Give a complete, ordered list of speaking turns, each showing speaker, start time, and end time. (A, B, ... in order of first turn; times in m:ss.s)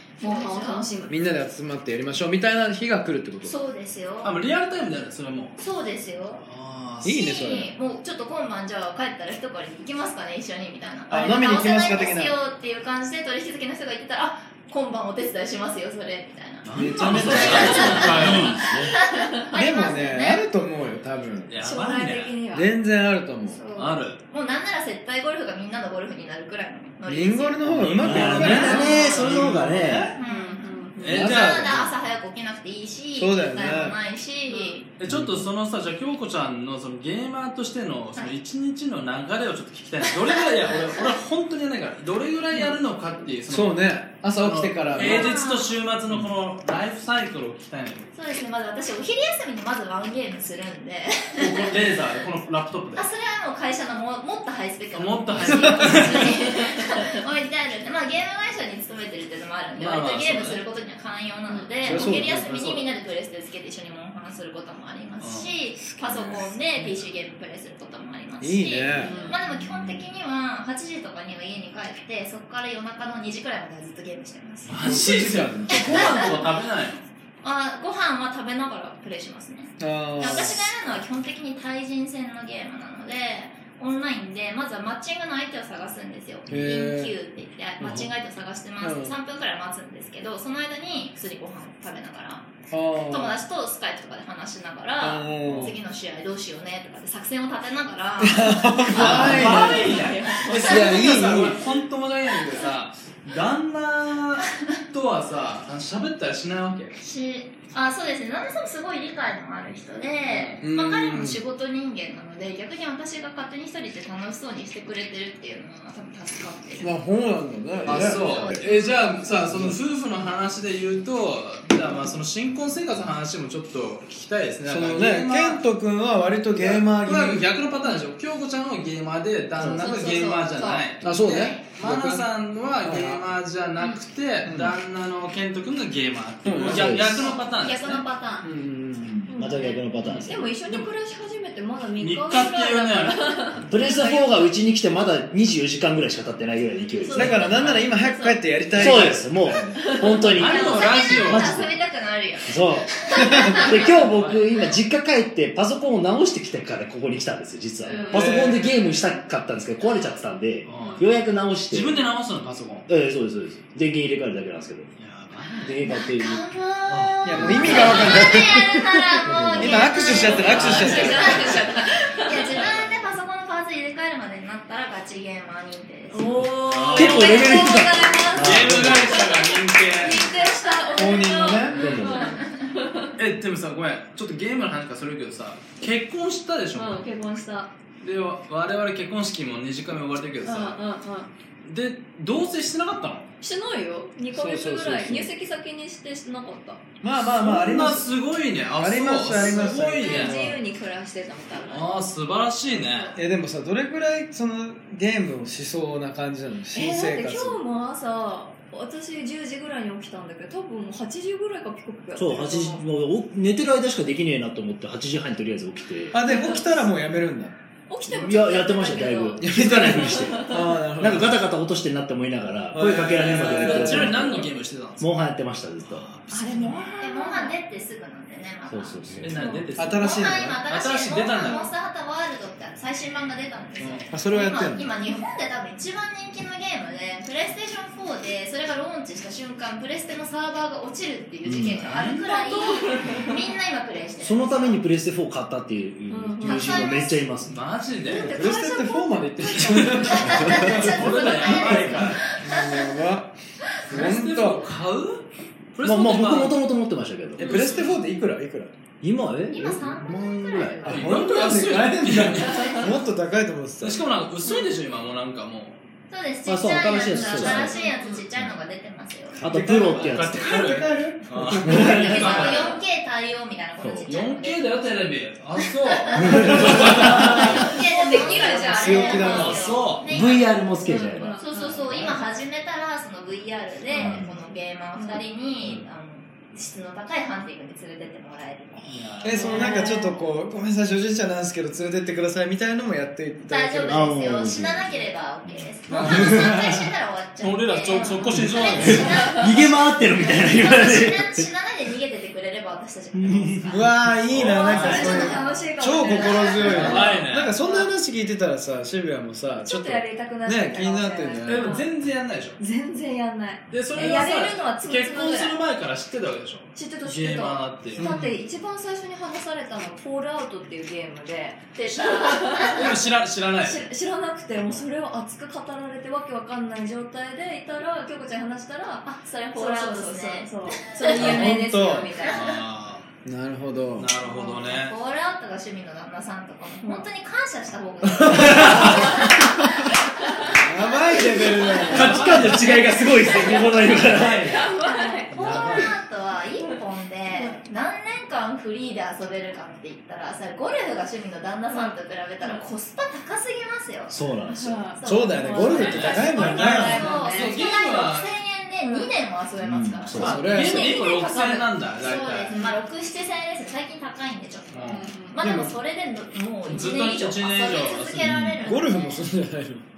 0:00.2-0:01.1 A
0:00.2-0:00.9 B
0:01.1-0:03.5 C
0:03.4-0:04.3 B
0:04.2-0:05.6 D
0:05.6-0:06.4 B
0:06.4-0:07.1 D
0:07.0-0:07.7 C
0:07.0-0:20.4 B
0:11.1-0:12.4 C
0:16.6-0:18.6 D
0:16.7-0:18.5 C
0:17.0-0:18.9 E
0:17.7-0:18.5 A
0:19.5-0:21.5 C
0:21.5-0:22.4 D
0:21.6-0:22.7 A
0:22.5-0:23.6 C
0:23.5-0:24.0 A
0:23.8-0:24.2 D
0:24.3-0:29.4 B
0:27.0-0:30.1 C
0:27.6-0:30.2 D
0:28.0-0:30.2 E
0:28.6-0:29.2 A
0:30.1-0:34.9 B
0:30.2-0:31.1 A
0:31.0-0:31.8 D
0:31.0-0:31.9 C
0:33.2-0:34.0 C
0:34.5-0:34.7 A
0:35.0-0:48.1 D
0:35.1-0:35.4 E
0:40.1-0:40.7 B
0:43.5-0:45.3 C
0:45.0-0:45.8 B
0:48.1-0:51.7 B
0:51.4-0:53.1 D
0:52.9-1:15.0 B
0:54.9-0:56.4 D
0:55.5-0:56.0 C
0:56.3-0:56.8 A
0:59.8-1:00.6 D
1:01.8-1:02.9 D
1:01.8-1:02.5 C
1:05.2-1:05.5 D
1:05.9-1:06.5 C
1:08.4-1:09.3 C
1:09.0-1:09.4 A
1:14.6-1:17.0 D
1:14.8-1:16.4 C
1:15.7-1:16.4 B
1:17.4-1:39.7 B
1:19.8-1:20.6 C
1:26.5-1:27.1 C
1:28.8-1:29.1 C
1:32.7-1:33.4 C
1:35.0-1:35.8 C
1:35.5-1:35.7 D
1:38.2-1:39.9 C
1:38.9-1:47.0 D
1:39.0-1:40.2 E
1:39.4-1:40.6 A
1:40.3-1:40.9 B
1:40.5-1:41.6 C
1:47.0-1:56.9 B
1:50.3-1:50.6 D
1:50.6-1:51.4 C
1:56.8-1:58.4 C
1:57.8-2:05.6 D
1:58.2-1:58.9 B
1:59.5-1:59.8 C
2:04.6-2:07.4 C
2:06.5-2:11.0 D
2:09.6-2:11.6 B
2:11.0-2:13.3 C
2:11.7-2:18.0 D
2:14.4-2:14.8 C
2:16.4-2:17.3 C
2:16.7-2:17.3 E
2:17.2-2:18.5 B
2:18.4-2:19.4 C
2:19.3-2:24.4 A
2:19.4-2:20.5 E
2:20.0-2:20.9 D
2:22.0-2:23.4 D
2:23.6-2:27.7 E
2:27.0-2:27.3 A
2:27.0-2:28.4 B
2:27.1-2:29.9 C
2:27.4-2:27.9 D
2:28.8-2:31.8 E
2:29.7-2:30.2 A
2:30.2-2:33.9 B
2:30.3-2:31.6 D
2:32.4-2:42.0 E
2:33.1-2:33.6 C
2:33.9-2:34.4 D
2:37.8-2:38.2 A
2:38.1-2:38.7 C
2:40.6-2:41.0 D
2:41.7-2:42.9 D
2:42.9-2:44.9 E
2:45.0-2:45.8 D
2:45.6-2:50.2 E
2:45.8-2:56.4 B
2:47.2-2:48.8 C
2:49.3-2:51.6 C
2:50.1-2:53.1 D
2:51.0-2:52.5 A
2:56.1-3:03.1 A
2:56.6-2:57.8 D
2:56.9-2:59.3 E
2:58.4-3:00.5 D
3:00.7-3:01.3 B
3:00.9-3:02.3 C
3:01.7-3:02.2 D
3:01.7-3:02.4 E
3:03.2-3:07.0 D
3:06.7-3:07.7 A
3:08.0-3:10.8 D
3:10.4-3:11.3 A
3:11.6-3:13.3 D
3:13.4-3:16.8 A
3:14.3-3:15.3 C
3:17.0-3:18.1 C
3:17.2-3:20.4 D
3:18.8-3:20.6 C
3:19.3-3:21.9 A
3:21.7-3:23.1 D
3:22.7-3:23.2 A
3:23.1-3:27.6 C
3:26.7-3:32.8 A
3:32.2-3:36.2 E
3:36.1-3:37.6 C
3:36.2-3:36.8 A
3:37.9-3:40.7 A
3:38.0-3:46.1 E
3:39.4-3:41.4 C
3:42.7-3:44.3 C
3:43.3-3:45.3 D
3:45.8-3:46.7 D
3:46.3-3:47.6 A
3:46.4-3:49.3 B
3:48.7-3:49.4 E
3:49.2-3:51.7 D
3:49.3-3:49.7 A
3:49.8-3:50.6 C
3:49.9-4:04.8 B
3:51.4-3:51.7 A
3:53.8-3:54.1 D
3:54.1-3:54.9 C
4:01.4-4:01.9 E
4:01.8-4:02.2 D
4:02.2-4:03.4 A
4:04.2-4:07.6 E
4:06.1-4:07.0 A
4:06.4-4:07.2 B
4:07.5-4:08.4 D
4:08.0-4:10.5 A
4:08.1-4:13.3 C
4:09.5-4:12.2 D
4:10.0-4:13.0 B
4:13.8-4:14.7 C
4:13.9-4:16.6 D
4:15.8-4:17.6 E
4:17.4-4:18.7 C
4:17.4-4:18.0 D
4:19.0-4:21.2 E
4:19.5-4:21.1 B
4:20.8-4:24.1 C
4:20.8-4:22.9 D
4:22.6-4:22.8 A
4:23.8-4:25.8 D
4:26.1-4:29.4 B
4:26.4-4:28.6 E
4:27.4-4:27.7 D
4:27.4-4:28.2 A
4:29.3-4:30.7 E
4:29.4-4:32.6 C
4:29.8-4:32.8 D
4:31.3-4:32.6 E
4:31.7-4:35.1 B
4:32.2-4:32.4 A
4:33.8-4:34.1 E
4:34.1-4:37.6 D
4:36.0-4:50.1 B
4:36.2-4:37.2 E
4:37.3-4:39.7 A
4:38.7-4:39.8 C
4:39.2-4:40.0 D
4:40.0-4:41.4 E
4:40.8-4:41.9 A
4:43.9-4:44.3 E
4:45.0-4:45.2 A
4:48.8-4:49.7 D
4:49.2-4:54.1 C
4:49.3-4:50.2 A
4:53.4-5:05.7 B
4:53.9-4:56.8 E
4:55.9-4:56.4 C
4:57.4-4:59.3 D
4:57.9-4:59.4 A
4:58.4-5:01.4 E
5:03.1-5:04.4 E
5:03.7-5:11.8 C
5:04.3-5:05.2 D
5:04.4-5:07.9 A
5:06.6-5:07.6 D
5:06.8-5:07.2 E
5:09.6-5:11.9 A
5:11.4-5:12.6 D
5:12.6-5:15.6 A
5:13.7-5:18.1 D
5:16.7-5:22.9 A
5:18.0-5:18.4 C
5:21.7-5:23.0 B
5:22.6-5:23.9 D
5:23.6-5:32.5 A
5:29.0-5:31.4 B
5:31.0-5:32.1 C
5:32.2-5:32.6 B
5:32.3-5:33.1 D
5:33.2-5:34.1 C
5:34.0-5:34.9 D
5:34.2-5:39.9 B
5:36.8-5:37.1 A
5:38.2-5:39.1 C
5:38.2-5:38.9 E
5:38.8-5:39.4 A
5:40.5-5:42.4 C
5:41.8-5:44.6 D
5:41.9-5:44.7 E
5:43.3-5:45.9 A
5:44.5-5:54.2 B
5:45.3-5:45.9 E
5:51.7-5:52.6 A
5:54.1-5:54.8 E
5:54.5-5:57.6 A
5:54.9-6:09.2 B
5:55.0-5:57.1 C
5:55.7-5:58.3 D
5:56.6-5:56.8 E
5:59.6-6:00.4 E
6:00.1-6:02.6 D
6:00.1-6:00.9 C
6:02.5-6:02.8 A
6:04.7-6:05.0 D
6:04.8-6:05.4 A
6:05.4-6:05.8 C
6:06.7-6:08.3 D
6:08.2-6:08.6 E
6:08.6-6:09.8 C